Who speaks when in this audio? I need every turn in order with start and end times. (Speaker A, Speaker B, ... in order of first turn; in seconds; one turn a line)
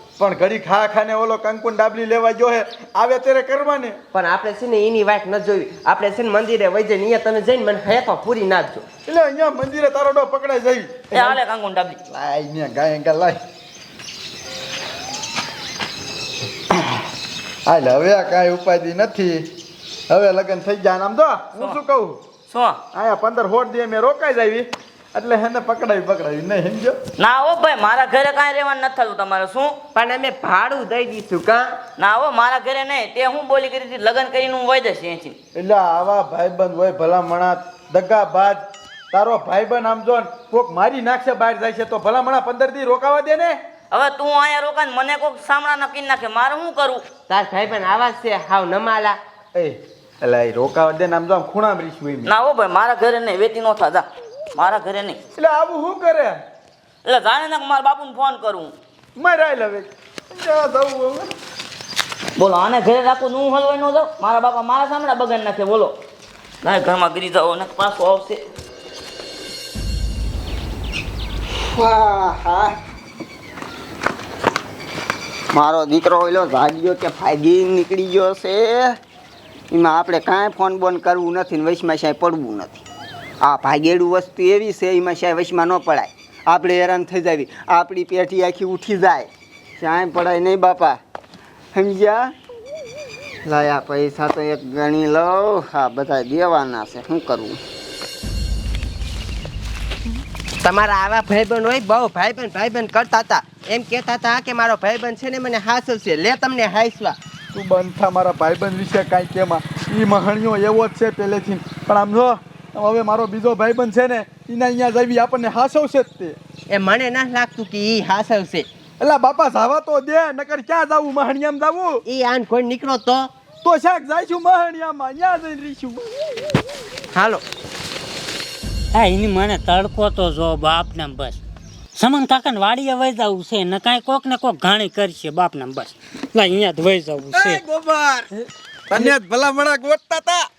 Speaker A: 0.2-3.9
Speaker B: 4.1-8.8
Speaker A: 9.1-11.4
Speaker C: 11.1-12.0
Speaker A: 12.1-13.4
Speaker A: 17.6-19.5
Speaker A: 20.1-22.2
Speaker C: 22.5-22.8
Speaker A: 22.9-27.0
Speaker C: 27.2-29.8
Speaker B: 29.9-31.7
Speaker C: 32.0-35.4
Speaker A: 35.5-43.6
Speaker C: 43.9-47.0
Speaker B: 47.3-49.2
Speaker A: 49.5-52.3
Speaker C: 52.2-55.2
Speaker A: 55.4-56.4
Speaker C: 57.0-58.7
Speaker A: 59.1-61.3
Speaker C: 62.4-65.9
Speaker C: 66.6-68.4
Speaker D: 71.6-72.8
Speaker D: 75.5-79.0
Speaker D: 79.7-82.8
Speaker D: 83.4-89.3
Speaker D: 89.8-91.0
Speaker D: 91.7-92.3
Speaker D: 93.4-97.6
Speaker B: 100.6-107.2
Speaker A: 107.5-116.4
Speaker B: 116.7-118.7
Speaker A: 119.0-122.0
Speaker B: 122.1-123.3
Speaker A: 123.6-126.0
Speaker B: 127.1-127.4
Speaker E: 128.9-131.4
Speaker E: 131.9-137.6
Speaker A: 137.3-138.3
Speaker A: 138.9-140.5